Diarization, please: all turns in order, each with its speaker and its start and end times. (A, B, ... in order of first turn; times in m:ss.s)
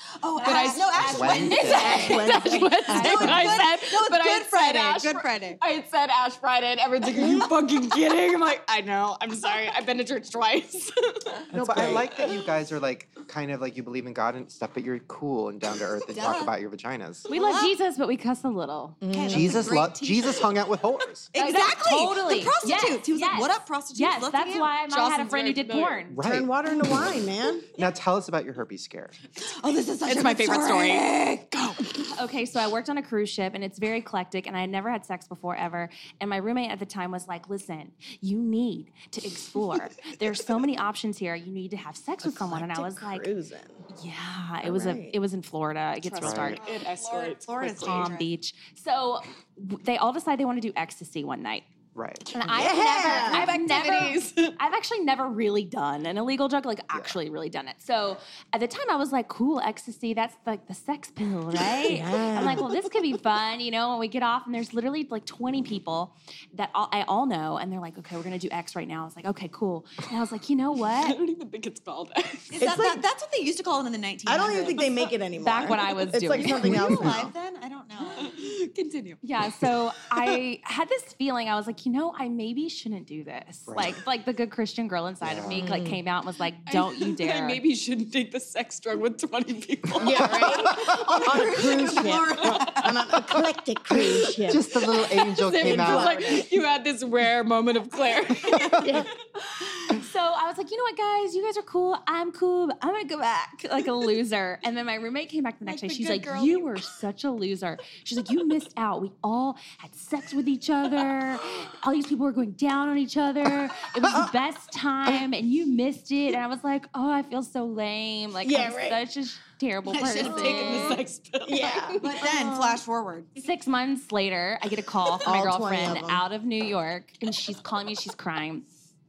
0:00.2-0:05.6 A
0:00.4-0:12.5 B
0:00.9-0:02.2 C
0:01.5-0:03.6 D
0:02.9-0:03.6 E
0:07.2-0:07.5 D
0:07.2-0:07.5 A
0:11.5-0:17.3 C
0:11.6-0:12.0 D
0:16.1-0:16.5 A
0:17.3-0:17.8 A
0:17.3-0:19.0 E
0:19.0-0:19.7 D
0:19.1-0:20.6 A
0:19.3-0:21.3 C
0:21.3-0:24.8 A
0:21.4-0:26.2 E
0:24.9-0:26.1 B
0:26.1-0:29.2 C
0:26.2-0:27.7 D
0:29.4-0:32.0 A
0:30.0-0:31.2 B
0:32.1-0:43.3 E
0:42.2-0:43.8 D
0:44.0-0:46.6 E
0:44.6-0:45.2 D
0:46.0-0:48.1 B
0:46.2-0:46.6 C
0:46.6-0:48.3 A
0:47.8-0:51.7 E
0:52.0-0:52.4 C
0:52.3-0:54.6 B
0:52.3-1:11.2 E
0:52.5-0:53.5 D
0:56.9-0:57.2 C
1:01.8-1:02.7 D
1:10.9-1:12.6 B
1:12.5-1:14.9 A
1:12.6-1:13.0 D
1:14.3-1:17.3 D
1:15.4-1:16.9 E
1:16.3-1:18.5 A
1:18.2-1:20.4 B
1:19.2-1:27.6 E
1:23.7-1:24.0 C
1:25.2-1:25.6 C
1:25.5-1:26.0 D
1:26.7-1:31.0 B
1:30.0-1:34.7 D
1:30.1-1:31.1 C
1:30.3-1:33.1 A
1:31.8-1:32.9 B
1:34.0-1:36.4 C
1:35.1-1:40.0 B
1:35.6-1:36.5 D
1:38.4-1:39.1 C
1:39.7-2:01.0 E
1:45.6-1:46.7 A
1:58.4-1:59.0 D
1:59.9-2:02.3 B
2:00.2-2:01.0 A
2:01.4-2:02.0 D
2:02.0-2:03.3 A
2:02.1-2:02.8 E
2:03.4-2:08.7 E
2:05.2-2:06.2 D